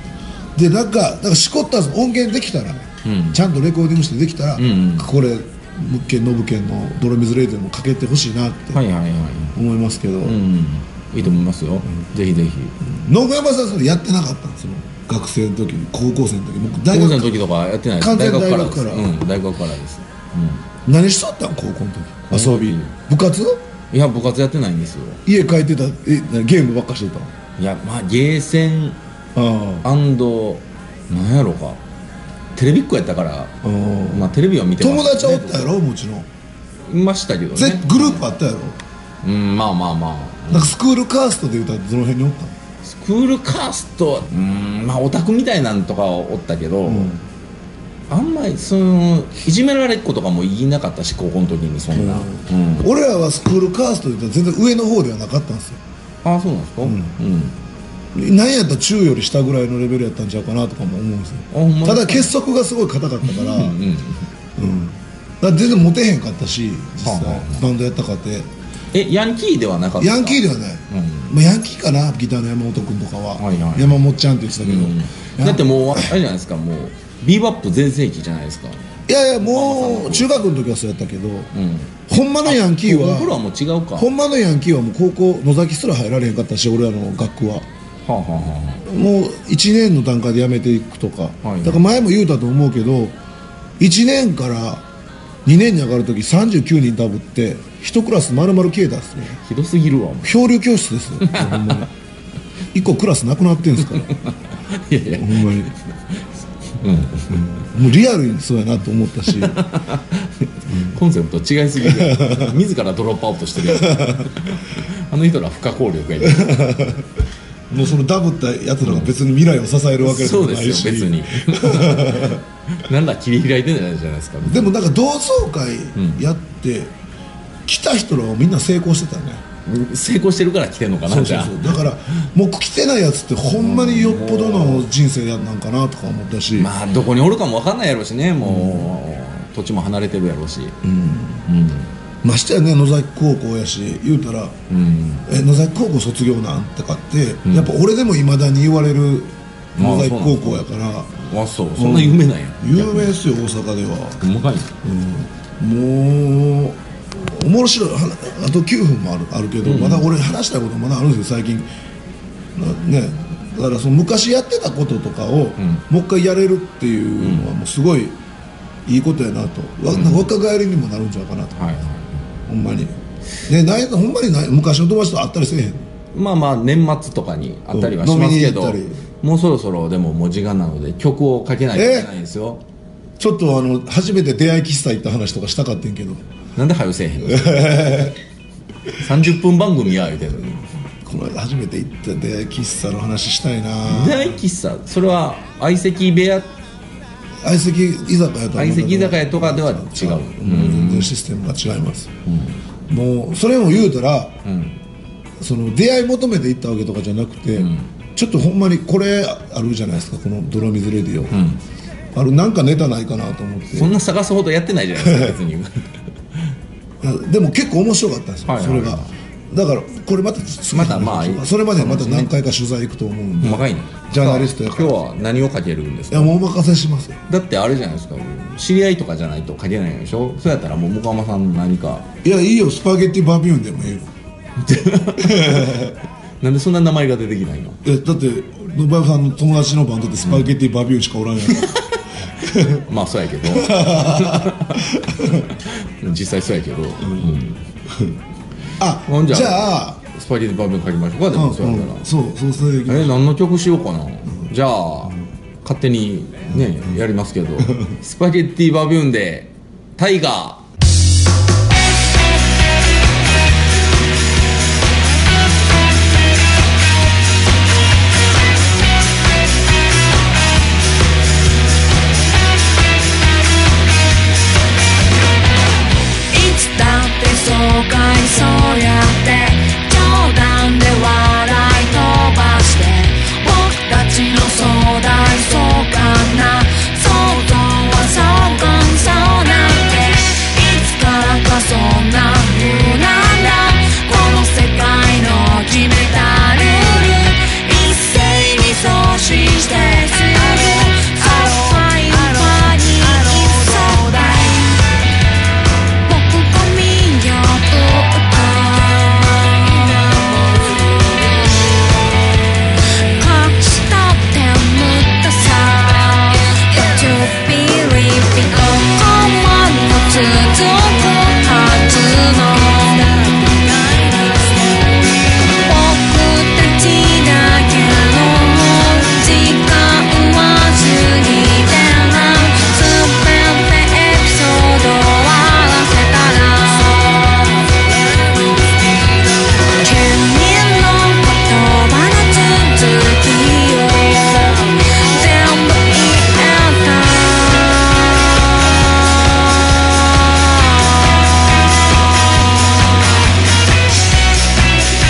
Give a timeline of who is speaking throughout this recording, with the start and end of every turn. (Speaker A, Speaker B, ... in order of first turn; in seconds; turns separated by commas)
Speaker A: 0.6-8.8, Speaker B: 3.0-3.4, Speaker B: 4.6-5.1, Speaker B: 8.7-9.6, Speaker A: 9.5-10.4, Speaker B: 10.2-12.8, Speaker A: 12.8-17.4, Speaker B: 16.9-20.6, Speaker A: 18.0-19.1, Speaker A: 20.9-23.6, Speaker B: 22.3-22.9, Speaker B: 23.9-25.2, Speaker A: 25.2-27.3, Speaker B: 27.6-29.0, Speaker A: 29.3-29.9, Speaker B: 29.8-31.8, Speaker B: 32.5-33.5, Speaker A: 33.6-36.3, Speaker B: 34.1-35.7, Speaker B: 36.9-38.2, Speaker A: 37.5-38.8, Speaker B: 39.2-40.7, Speaker A: 40.5-42.5, Speaker B: 42.8-47.1, Speaker A: 46.8-47.2, Speaker B: 48.1-52.9, Speaker A: 51.9-55.8, Speaker B: 56.2-57.5, Speaker A: 56.8-57.1, Speaker A: 58.1-63.8, Speaker B: 61.5-62.3, Speaker B: 63.2-64.3, Speaker A: 64.6-68.5, Speaker B: 67.0-67.7, Speaker B: 68.9-71.3, Speaker A: 70.0-76.1, Speaker B: 73.4-74.0, Speaker B: 74.6-78.8, Speaker A: 79.1-81.5, Speaker B: 79.4-80.4, Speaker B: 81.5-84.1, Speaker A: 82.1-83.4, Speaker A: 84.0-87.7, Speaker B: 88.0-88.9, Speaker A: 88.8-93.2, Speaker B: 91.4-91.8, Speaker A: 93.8-94.9, Speaker A: 95.4-99.4, Speaker B: 99.4-100.4, Speaker A: 100.2-101.9, Speaker B: 101.2-101.8, Speaker A: 102.7-104.1, Speaker B: 104.0-106.2, Speaker A: 105.1-105.7, Speaker B: 106.8-107.6, Speaker A: 107.3-109.6, Speaker B: 109.3-116.7, Speaker A: 110.7-111.0, Speaker A: 111.8-112.6, Speaker A: 113.6-114.4, Speaker A: 116.2-117.1, Speaker A: 117.7-122.4, Speaker B: 118.8-119.1, Speaker B: 120.0-124.7, Speaker A: 124.4-126.9, Speaker B: 125.9-126.2, Speaker A: 127.7-129.4, Speaker B: 129.7-131.8, Speaker A: 131.1-136.7, Speaker B: 133.6-134.9, Speaker B: 136.5-140.8, Speaker A: 138.4-138.9, Speaker A: 140.8-141.4, Speaker B: 141.4-141.9, Speaker A: 142.2-144.6, Speaker B: 144.7-145.3, Speaker A: 145.2-151.1, Speaker B: 147.4-147.7, Speaker B: 149.8-150.6, Speaker B: 151.2-153.1, Speaker A: 151.8-154.2, Speaker B: 154.2-154.7, Speaker A: 154.8-161.7, Speaker B: 159.6-160.1, Speaker A: 162.5-168.2, Speaker B: 165.6-165.8, Speaker B: 167.2-167.5, Speaker A: 168.8-171.6, Speaker B: 169.9-170.3, Speaker B: 171.5-172.2, Speaker A: 172.5-175.9, Speaker B: 176.1-182.6, Speaker A: 177.7-179.0, Speaker A: 181.7-182.1, Speaker A: 183.2-186.2, Speaker B: 186.6-188.1, Speaker A: 187.2-188.2, Speaker B: 189.0-190.7, Speaker A: 191.0-194.4, Speaker B: 193.8-196.5, Speaker A: 197.4-202.1, Speaker B: 198.5-201.1, Speaker B: 202.2-202.6, Speaker A: 202.9-204.4, Speaker B: 204.4-204.8, Speaker A: 205.4-211.4, Speaker B: 207.6-207.9, Speaker B: 211.3-211.6, Speaker A: 212.1-213.9, Speaker B: 213.7-215.9, Speaker A: 215.0-215.4, Speaker A: 217.0-225.0, Speaker B: 218.5-219.1, Speaker B: 220.7-222.3, Speaker B: 223.4-226.3, Speaker A: 226.1-227.2, Speaker B: 227.3-232.1, Speaker A: 232.2-234.1, Speaker B: 234.6-235.9, Speaker A: 235.2-235.9, Speaker B: 236.4-237.8, Speaker A: 237.8-241.7, Speaker B: 241.5-247.6, Speaker A: 242.4-242.8, Speaker A: 243.4-245.5, Speaker A: 247.0-247.4, Speaker A: 248.8-250.0, Speaker B: 249.1-252.1, Speaker A: 251.3-253.2, Speaker B: 252.8-260.6, Speaker C: 276.3-304.9, Speaker C: 306.1-311.6, Speaker C: 313.2-337.7, Speaker C: 339.7-347.7, Speaker C: 350.3-350.9